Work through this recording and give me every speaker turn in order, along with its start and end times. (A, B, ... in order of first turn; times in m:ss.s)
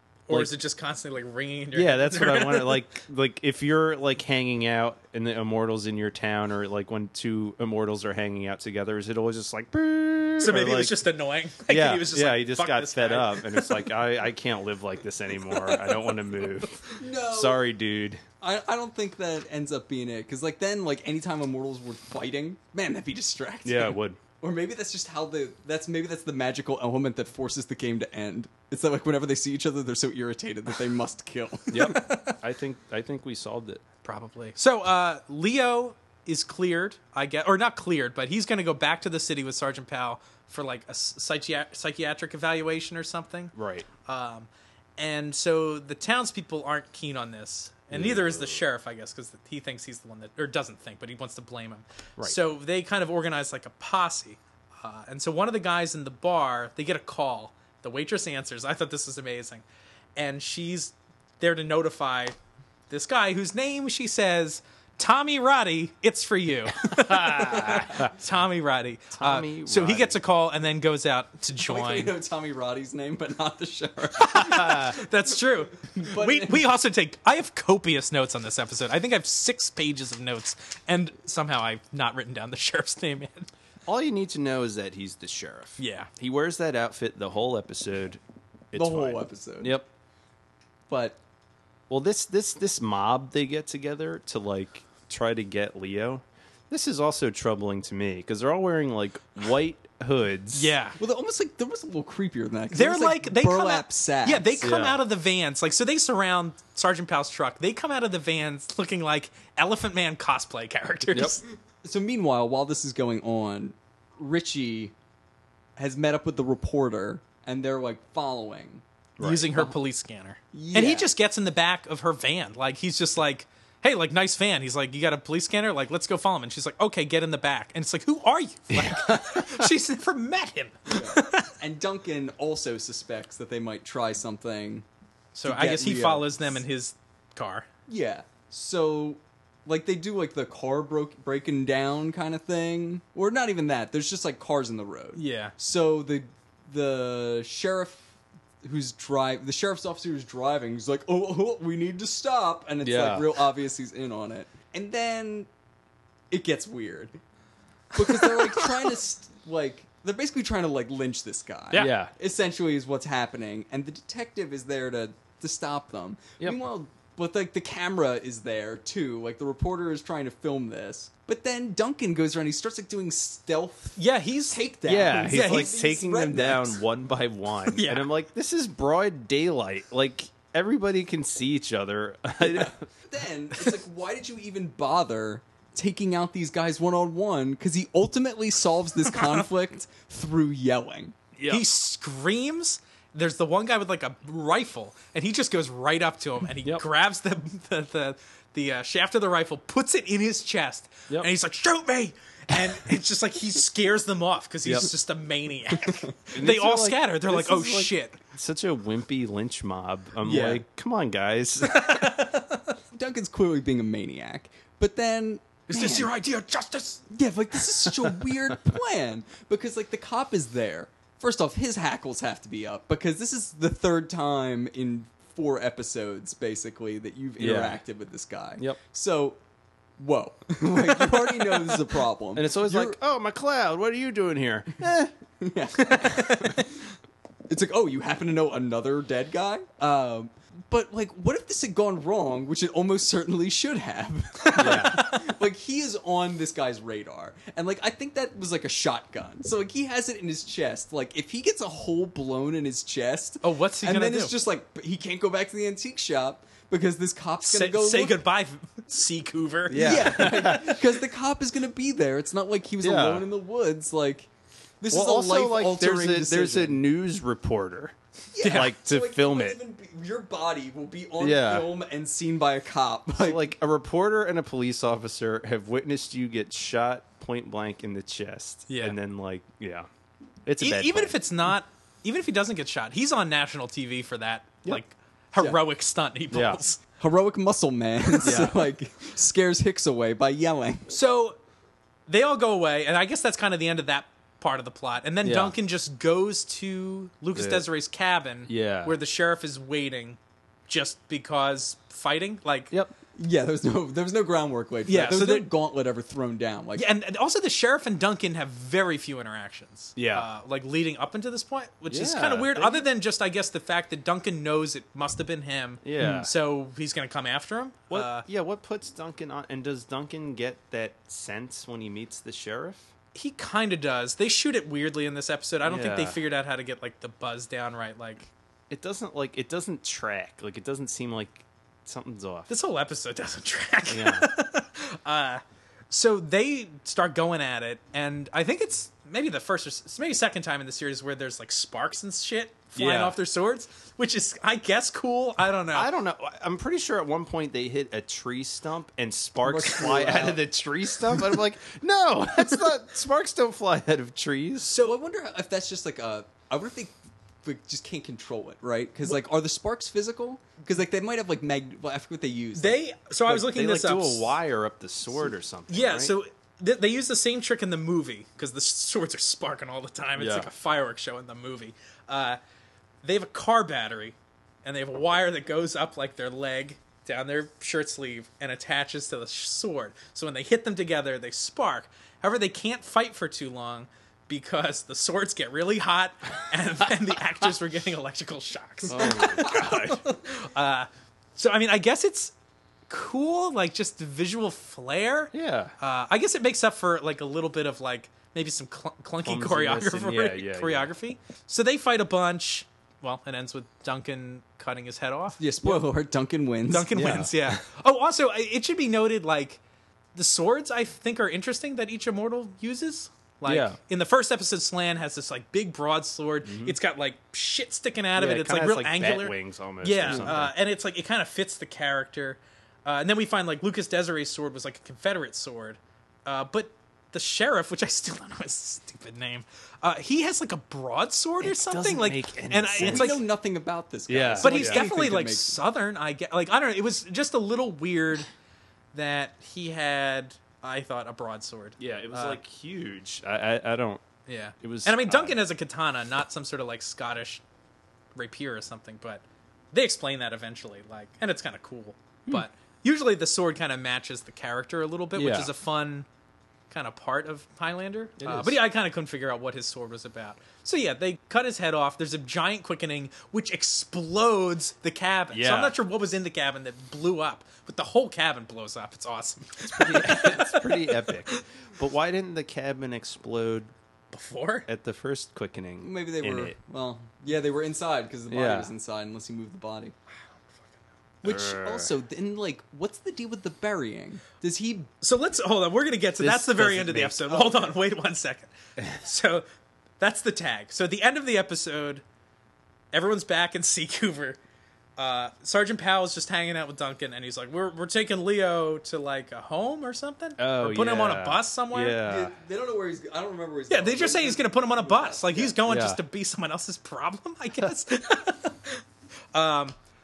0:00.3-0:02.9 A
0:01.7-0:11.0 B
0:10.4-0:13.8 A
0:11.7-0:18.2 B
0:15.5-0:17.0 A
0:17.0-0:17.6 C
0:18.4-0:32.0 C
0:23.6-0:24.2 B
0:31.7-0:33.8 B
0:31.8-0:32.4 A
0:34.0-0:43.5 A
0:43.5-0:43.9 B
0:44.0-0:59.6 A
0:47.9-0:48.6 B
1:00.2-1:02.4 A
1:02.9-1:12.1 A
1:06.8-1:08.2 B
1:09.1-1:10.2 B
1:11.6-1:15.0 C
1:14.2-1:23.5 A
1:14.4-1:15.0 B
1:15.8-1:16.6 C
1:23.9-1:29.9 B
1:25.8-1:26.1 A
1:28.7-1:29.8 C
1:30.9-1:31.2 C
1:31.9-1:40.7 B
1:40.5-1:41.0 A
1:41.0-1:44.7 C
1:42.7-1:51.4 A
1:44.6-1:45.0 B
1:51.1-1:51.4 B
1:51.8-1:54.9 C
1:55.8-1:58.8 C
1:59.2-1:59.6 B
1:59.2-2:11.5 A
2:00.5-2:01.1 C
2:08.7-2:09.7 B
2:10.9-2:14.8 C
2:15.4-2:17.7 A
2:15.4-2:16.6 C
2:17.9-2:35.5 C
2:25.2-2:25.6 A
2:32.8-2:33.4 B
2:36.3-2:37.2 C
2:37.9-2:56.8 C
2:38.1-2:38.4 A
2:41.7-2:42.1 B
2:54.0-2:54.6 A
2:54.8-3:02.9 B
2:55.2-2:55.7 A
2:57.7-2:58.1 A
3:02.4-3:11.2 C
3:11.4-3:11.6 B
3:11.5-3:28.2 A
3:24.6-3:24.9 B
3:26.3-3:32.2 B
3:30.2-3:30.6 C
3:31.7-3:32.7 A
3:32.9-3:36.1 C
3:35.7-3:37.0 A
3:37.1-3:49.4 C
3:47.4-3:47.8 B
3:50.0-3:53.0 C
3:50.6-3:51.7 B
3:52.4-3:55.1 B
3:55.4-3:56.7 C
3:55.8-3:56.6 B
3:57.5-4:18.2 C
4:04.4-4:05.2 A
4:04.6-4:05.1 B
4:13.4-4:14.4 A
4:17.4-4:20.5 A
4:19.7-4:20.8 B
4:19.7-4:24.3 C
4:22.8-4:23.3 B
4:24.8-4:26.8 C
4:24.9-4:29.6 B
4:28.3-4:33.5 C
4:28.4-4:28.7 A
4:31.2-4:31.7 B
4:33.2-4:39.9 B
4:38.7-4:39.0 A
4:40.4-4:41.2 B
4:40.6-4:46.8 A
4:46.3-4:46.6 B
4:47.0-4:50.9 C
4:48.2-4:48.7 B
4:50.9-4:51.4 A
4:52.1-5:02.7 A
4:55.2-4:55.6 B
4:57.3-4:57.7 B
4:58.5-4:59.0 B
5:03.2-5:06.9 C
5:04.9-5:05.5 A
5:06.8-5:18.2 A
5:10.0-5:10.3 B
5:11.9-5:12.8 B
5:15.8-5:16.3 B
5:17.9-5:22.9 B
5:23.2-5:28.3 A
5:25.6-5:26.2 B
5:28.7-5:32.5 B
5:32.5-5:45.9 A
5:33.9-5:34.3 B
5:42.8-5:43.2 B
5:45.7-5:54.7 B
5:49.4-5:50.4 C
5:51.1-5:51.4 C
5:54.6-5:54.9 A
5:54.8-5:56.9 C
5:57.4-6:02.8 C
6:02.6-6:04.4 A
6:03.3-6:06.1 B
6:05.7-6:12.4 A
6:10.2-6:10.5 B
6:13.0-6:32.3 A
6:28.9-6:30.0 B
6:32.9-6:45.8 A
6:35.3-6:35.7 B
6:39.2-6:40.9 B
6:45.4-6:47.2 C
6:46.7-6:49.6 A
6:46.9-6:47.6 B
6:50.2-7:13.2 A
6:53.4-6:53.8 B
6:56.4-6:56.8 B
6:58.2-7:00.5 B
7:11.4-7:13.2 B
7:12.8-7:15.6 C
7:14.1-7:14.9 B
7:14.4-7:18.3 A
7:18.9-7:22.4 A
7:21.8-7:24.0 B
7:24.3-7:27.4 A
7:24.6-7:25.4 B
7:28.2-7:36.1 A
7:35.2-7:35.5 B
7:36.7-7:51.4 A
7:38.2-7:38.6 B
7:45.3-7:45.8 B
7:49.6-7:53.7 B
7:54.1-7:54.7 A
7:54.7-7:56.6 B
7:55.8-7:59.9 C
7:58.3-7:58.7 B
8:01.2-8:04.9 C
8:01.2-8:01.9 B
8:05.0-8:09.4 A
8:06.2-8:07.5 B
8:07.4-8:07.7 C
8:10.0-8:12.0 A
8:12.9-8:14.4 A
8:15.0-8:22.0 A
8:20.4-8:22.4 B
8:22.0-8:25.6 C
8:23.7-8:28.8 A
8:25.6-8:26.0 B
8:29.3-8:29.8 A